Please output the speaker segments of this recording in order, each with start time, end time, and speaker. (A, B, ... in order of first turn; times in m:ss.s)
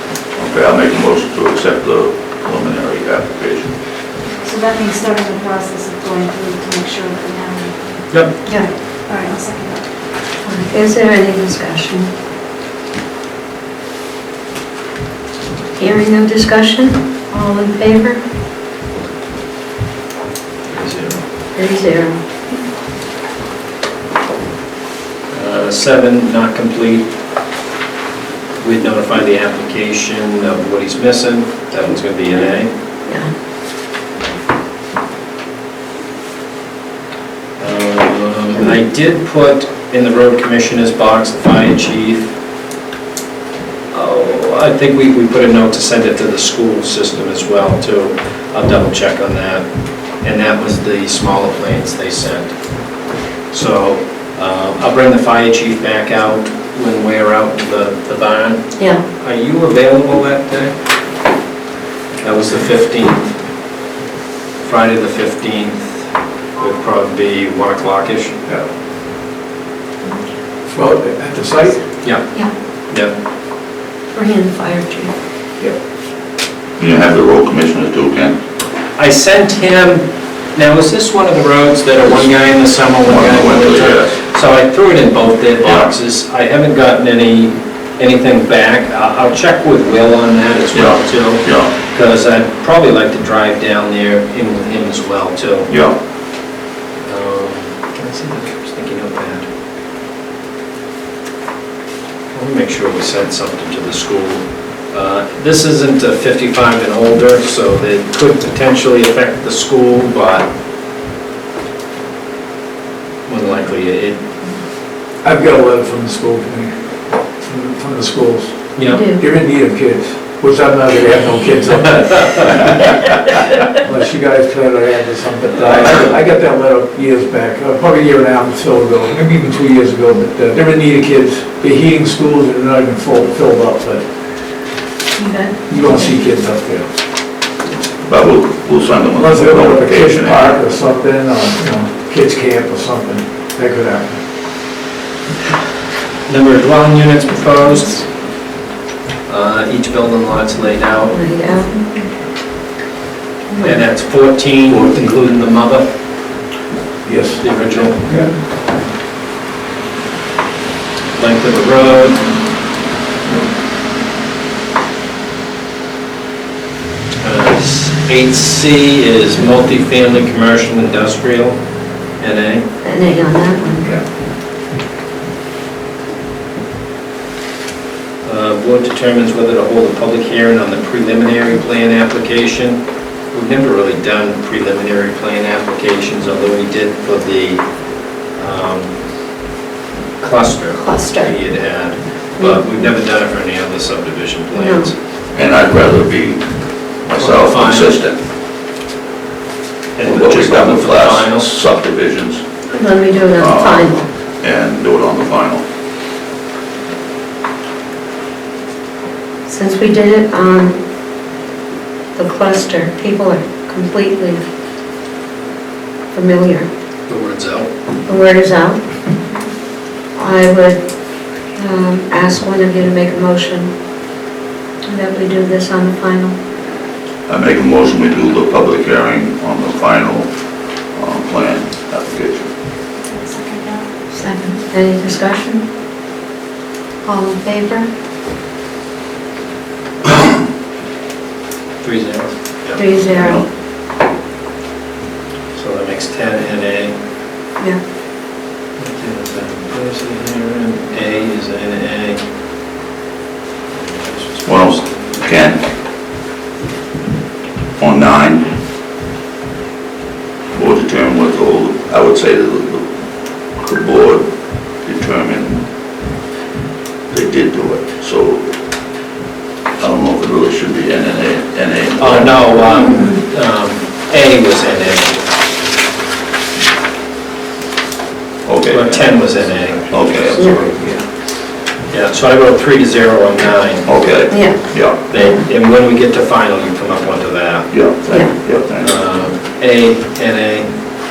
0:00.4-0:03.8 A
0:04.4-0:09.9 B
0:10.4-0:12.1 C
0:15.8-0:18.2 C
0:20.7-0:21.2 D
0:21.6-0:22.2 C
0:25.3-0:27.1 D
0:28.6-0:32.7 D
0:37.6-0:42.3 D
0:43.9-0:49.7 D
0:50.2-0:52.6 D
0:53.5-1:00.8 D
1:02.2-1:03.3 D
1:04.6-1:08.4 D
1:10.7-1:11.9 E
1:12.0-1:12.3 D
1:12.9-1:13.1 D
1:14.1-1:15.1 C
1:16.8-1:18.4 A
1:19.0-1:35.7 D
1:23.0-1:24.2 A
1:25.6-1:25.9 A
1:30.7-1:31.7 A
1:35.7-1:36.0 A
1:37.1-1:39.5 D
1:42.3-1:50.5 D
1:53.3-1:54.2 D
1:55.2-2:03.0 E
1:58.8-1:59.0 D
1:58.9-1:59.2 C
2:02.3-2:02.6 D
2:03.7-2:14.1 E
2:05.6-2:06.1 D
2:15.2-2:15.9 B
2:15.7-2:16.9 E
2:18.1-2:20.6 A
2:19.2-2:24.2 E
2:26.3-2:28.1 D
2:29.3-2:31.2 D
2:31.1-2:31.9 C
2:33.5-2:33.8 C
2:33.6-2:35.9 D
2:34.7-2:35.2 E
2:37.0-2:37.5 E
2:37.4-2:38.1 D
2:38.0-2:38.3 E
2:41.2-2:42.3 D
2:47.2-2:51.6 D
2:52.2-2:52.6 D
2:52.8-2:53.9 C
2:58.2-3:02.8 D
3:03.3-3:09.0 D
3:10.2-3:15.0 D
3:10.8-3:11.3 C
3:12.4-3:12.8 C
3:14.5-3:14.9 C
3:15.3-3:16.5 A
3:17.0-3:18.2 A
3:17.2-3:17.9 D
3:20.0-3:21.5 D
3:20.0-3:22.4 A
3:22.7-3:24.0 C
3:23.4-3:25.6 A
3:29.5-3:30.8 C
3:32.2-3:34.4 C
3:36.1-3:36.7 C
3:37.1-3:37.7 D
3:38.1-3:38.8 C
3:40.2-3:40.8 C
3:41.6-3:43.7 C
3:44.9-3:46.4 C
3:47.3-3:50.3 A
3:50.9-3:52.5 A
3:53.0-3:54.6 B
3:54.7-3:55.7 C
3:57.0-3:57.9 C
4:01.8-4:02.8 D
4:02.8-4:03.4 C
4:03.1-4:03.4 A
4:05.5-4:07.0 D
4:08.8-4:12.2 D
4:14.0-4:15.3 D
4:14.4-4:15.6 A
4:17.8-4:18.5 A
4:20.5-4:22.9 A
4:23.6-4:24.3 A
4:24.8-4:25.6 A
4:27.1-4:28.5 A
4:29.8-4:32.9 A
4:32.0-4:35.2 D
4:38.4-4:39.2 A
4:38.7-4:40.6 D
4:39.9-4:40.7 A
4:40.4-4:40.6 C
4:40.5-4:41.0 E
4:41.9-4:43.9 D
4:43.9-4:45.0 A
4:44.3-4:44.6 C
4:45.1-4:47.7 D
4:45.1-4:45.4 C
4:47.7-4:49.0 A
4:48.8-4:50.7 D